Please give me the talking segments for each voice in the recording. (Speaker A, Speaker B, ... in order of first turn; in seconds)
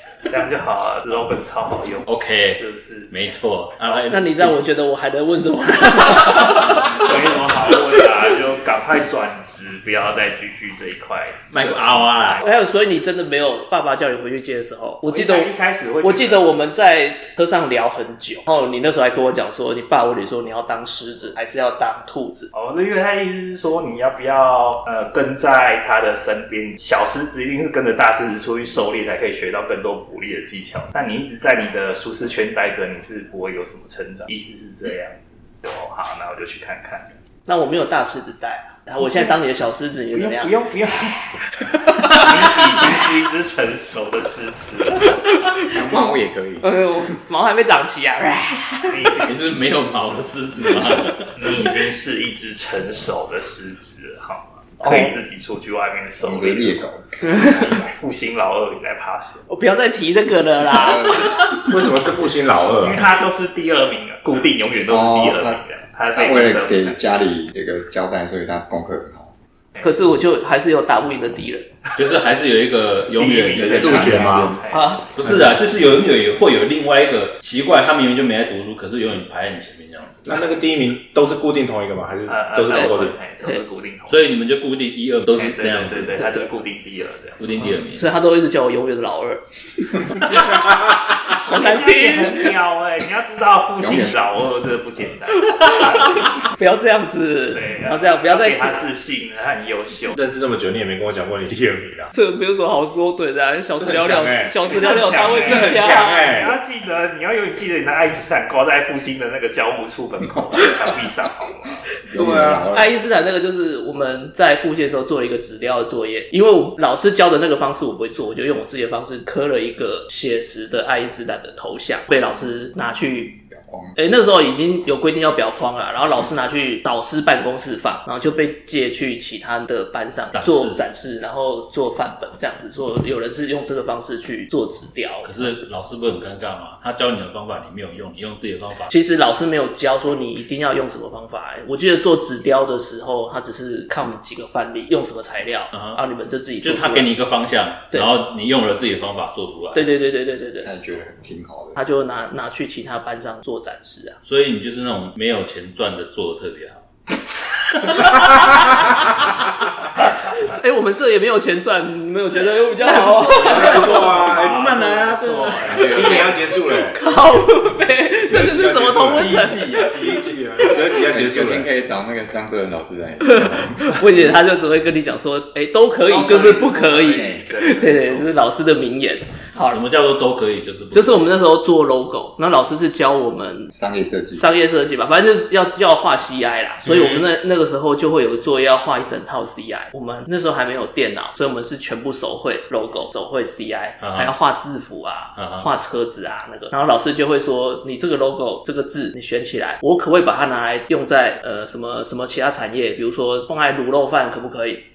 Speaker A: 0.3-3.1, 6.8-12.6, 15.1-16.4, 22.5-37.2, 40.1-45.2, 48.9-49.4, 51.3-59.5, 62.8-67.0, 73.2-75.0, 82.3-84.2, 85.3-87.4, 91.5-96.5, 97.5-100.2, 104.7-111.8, 163.4-166.4, 176.1-178.3
Speaker B: 2.1-4.6, 11.5-12.4, 49.2-51.3, 72.0-74.4, 75.2-80.3, 84.1-86.3, 87.4-88.1, 130.3-130.8, 135.2-138.9, 145.7-146.0, 146.6-149.9, 154.2-156.8, 157.7-158.5, 162.8-166.0, 169.2-170.0, 179.5-181.2, 186.9-187.3, 194.0-194.3, 195.4-195.7
Speaker C: 4.1-7.3, 12.4-15.5, 16.0-22.5, 37.5-40.5, 45.3-46.1, 46.6-49.0, 54.8-55.2, 59.5-61.3, 69.8-71.7, 74.7-75.0, 82.7-83.6, 88.0-89.4, 90.1-90.6, 91.3-92.5, 95.6-98.8, 102.1-106.3, 112.7-123.4, 124.0-135.6, 138.9-147.1, 149.7-150.7, 151.8-154.2, 160.4-164.2, 166.8-170.9, 173.2-179.8, 180.9-183.7, 184.3-204.8
Speaker D: 45.7-46.8, 56.2-57.8, 60.7-61.4, 64.9-65.6, 66.1-69.3, 73.5-74.6, 93.8-94.2, 112.1-113.0, 123.4-124.0, 150.6-151.8, 165.7-166.3, 171.0-174.3, 177.1-177.5, 183.7-184.5
Speaker E: 61.6-63.1, 73.8-74.5, 80.2-83.2, 90.5-91.1, 100.1-102.1, 103.8-104.7, 105.4-106.6, 112.2-112.7, 163.3-164.6, 165.7-167.0, 168.2-171.7